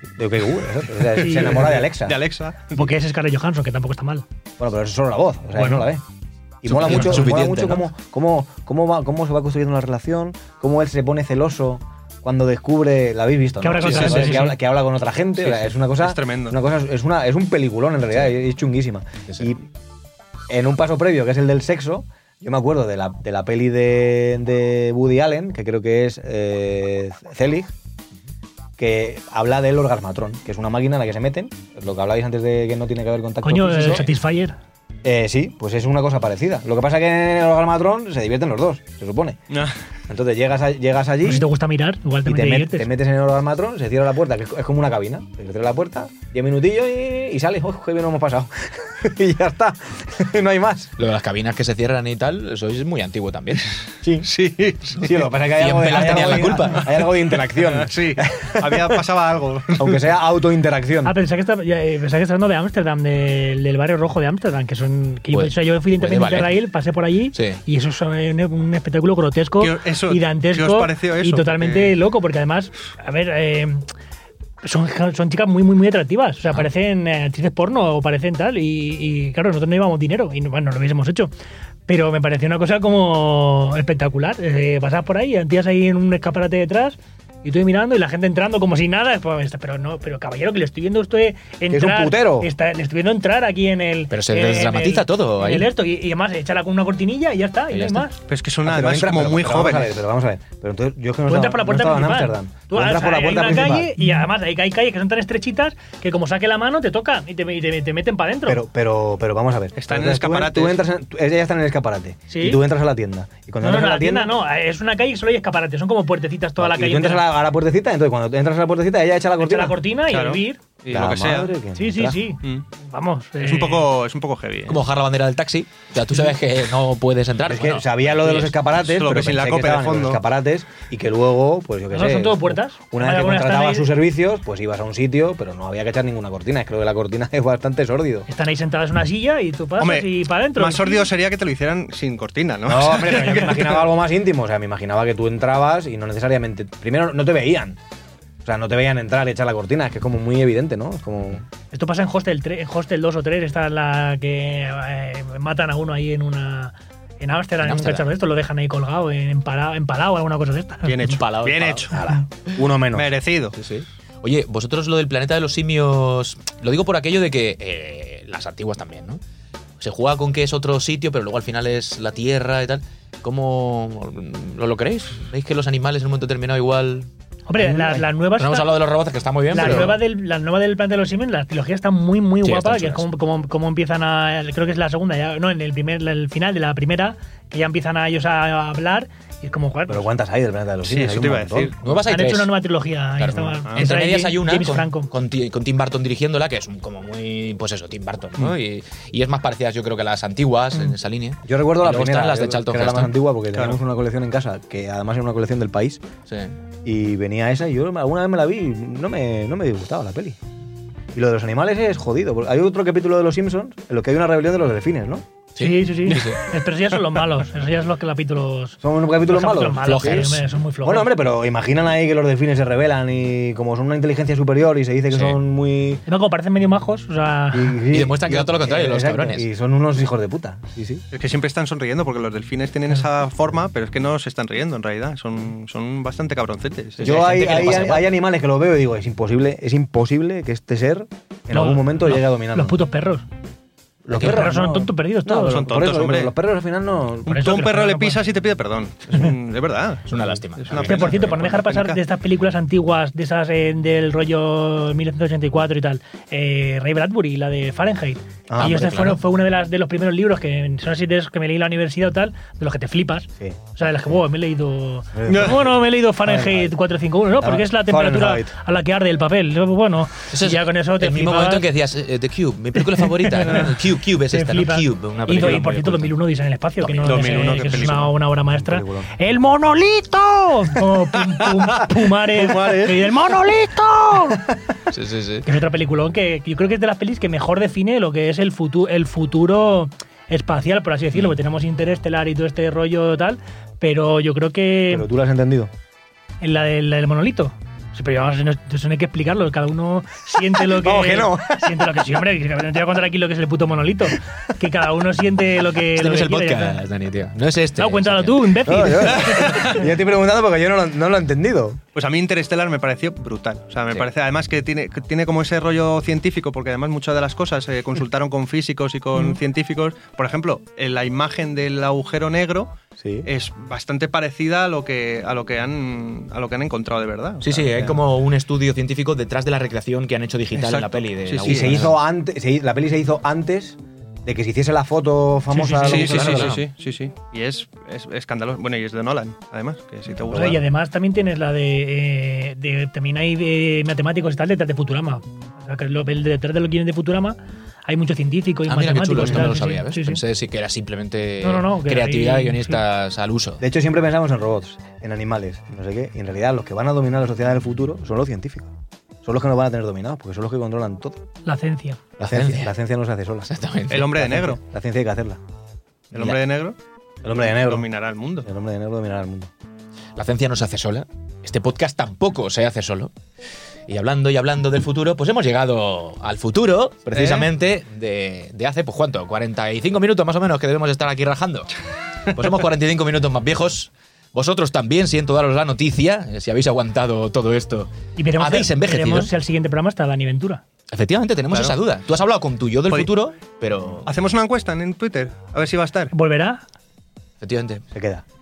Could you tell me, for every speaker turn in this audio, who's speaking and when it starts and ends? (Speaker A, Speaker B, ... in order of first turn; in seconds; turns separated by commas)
Speaker A: 0.2-2.2, Speaker B: 1.0-2.9, Speaker C: 1.1-1.8, Speaker C: 2.7-4.2, Speaker A: 4.6-6.0, Speaker C: 5.5-5.9, Speaker A: 6.6-19.6, Speaker D: 6.6-7.8, Speaker C: 13.6-14.6, Speaker B: 13.8-14.4, Speaker B: 15.4-16.6, Speaker A: 20.5-27.7, Speaker A: 28.8-34.1, Speaker C: 33.4-34.5, Speaker A: 35.0-39.4, Speaker B: 39.5-39.8, Speaker A: 40.1-41.5, Speaker C: 41.2-42.9, Speaker A: 42.2-50.9, Speaker D: 51.0-53.9, Speaker A: 54.0-54.3, Speaker B: 54.2-55.2, Speaker A: 55.0-59.0, Speaker D: 55.5-57.0, Speaker B: 57.5-60.1, Speaker A: 59.8-61.1, Speaker C: 61.0-73.9, Speaker D: 65.3-66.6, Speaker D: 67.3-67.6, Speaker B: 69.6-72.0, Speaker C: 74.6-81.3, Speaker C: 81.9-98.2, Speaker A: 91.7-92.5, Speaker D: 94.1-95.7, Speaker D: 97.7-98.0, Speaker B: 98.3-99.9, Speaker A: 98.6-103.9, Speaker C: 101.3-108.6, Speaker A: 108.5-114.4, Speaker B: 109.8-110.8, Speaker C: 112.3-112.6, Speaker C: 113.6-117.3, Speaker A: 116.6-119.8, Speaker C: 119.4-120.6, Speaker B: 120.1-121.5, Speaker A: 120.9-122.2, Speaker C: 121.7-123.9, Speaker B: 123.4-124.8, Speaker D: 124.7-128.5, Speaker A: 127.5-138.3, Speaker B: 128.8-130.2, Speaker C: 131.9-133.9, Speaker C: 138.3-141.1, Speaker B: 139.8-143.9, Speaker A: 142.7-147.8, Speaker A: 148.4-151.4, Speaker C: 151.7-161.1, Speaker D: 157.6-158.1, Speaker B: 160.8-162.0, Speaker D: 161.0-161.9, Speaker A: 161.9-163.1, Speaker B: 162.9-163.6, Speaker D: 163.6-169.2, Speaker D: 169.8-177.1, Speaker C: 177.5-178.7, Speaker A: 177.6-178.0, Speaker D: 178.4-180.0, Speaker C: 179.5-190.1, Speaker D: 182.4-183.1, Speaker A: 189.9-191.7, Speaker B: 190.8-191.8, Speaker D: 191.8-192.6, Speaker C: 192.1-195.1, Speaker D: 193.2-203.1, Speaker A: 201.4-206.0, Speaker B: 203.5-203.8, Speaker D: 206.3-206.5, Speaker A: 206.8-210.4, Speaker A: 211.1-215.2, Speaker D: 215.6-216.4, Speaker C: 215.6-221.1, Speaker A: 218.8-226.0, Speaker D: 219.8-220.4, Speaker D: 225.1-225.4, Speaker C: 226.1-227.8, Speaker A: 227.5-231.0, Speaker D: 227.9-229.5, Speaker B: 231.1-237.9, Speaker D: 237.0-238.1, Speaker A: 237.0-242.8, Speaker C: 241.5-243.2, Speaker A: 244.0-247.3, Speaker C: 244.1-245.6, Speaker D: 244.1-244.5, Speaker B: 245.4-246.3, Speaker B: 247.2-252.0, Speaker C: 247.3-248.2, Speaker D: 250.1-251.4, Speaker C: 250.8-271.6, Speaker A: 258.5-258.8, Speaker D: 258.5-259.2, Speaker A: 265.1-266.8, Speaker A: 267.4-268.5, Speaker D: 270.3-276.1, Speaker C: 272.9-284.5, Speaker D: 276.8-277.9, Speaker B: 277.0-278.1, Speaker A: 278.5-279.1, Speaker B: 282.3-283.1, Speaker D: 284.9-285.5, Speaker C: 285.4-295.1, Speaker A: 294.9-295.7, Speaker C: 296.4-306.8, Speaker A: 300.6-301.9, Speaker D: 305.9-308.7, Speaker C: 307.8-309.8, Speaker A: 308.6-311.8, Speaker B: 309.1-309.9, Speaker B: 311.9-327.9, Speaker A: 323.0-323.3, Speaker D: 327.4-331.9, Speaker B: 330.5-331.9, Speaker A: 331.4-336.6, Speaker C: 335.5-336.4, Speaker B: 335.8-340.6, Speaker D: 336.2-336.6, Speaker C: 340.3-350.2, Speaker D: 348.7-353.6, Speaker C: 351.4-352.8, Speaker A: 353.6-361.2, Speaker C: 361.4-362.0, Speaker A: 362.2-363.5, Speaker D: 362.2-362.7, Speaker D: 363.4-364.2, Speaker B: 363.9-364.6, Speaker A: 364.0-365.4, Speaker B: 366.1-366.8, Speaker A: 367.2-367.9, Speaker B: 367.3-368.5, Speaker A: 368.4-369.5, Speaker D: 370.1-373.1, Speaker D: 373.9-381.8, Speaker B: 377.1-377.5, Speaker D: 382.3-389.3, Speaker C: 388.1-390.6, Speaker D: 390.9-394.1, Speaker B: 391.5-391.8, Speaker B: 394.1-396.1, Speaker C: 396.1-396.6, Speaker D: 397.4-397.8, Speaker A: 397.9-398.2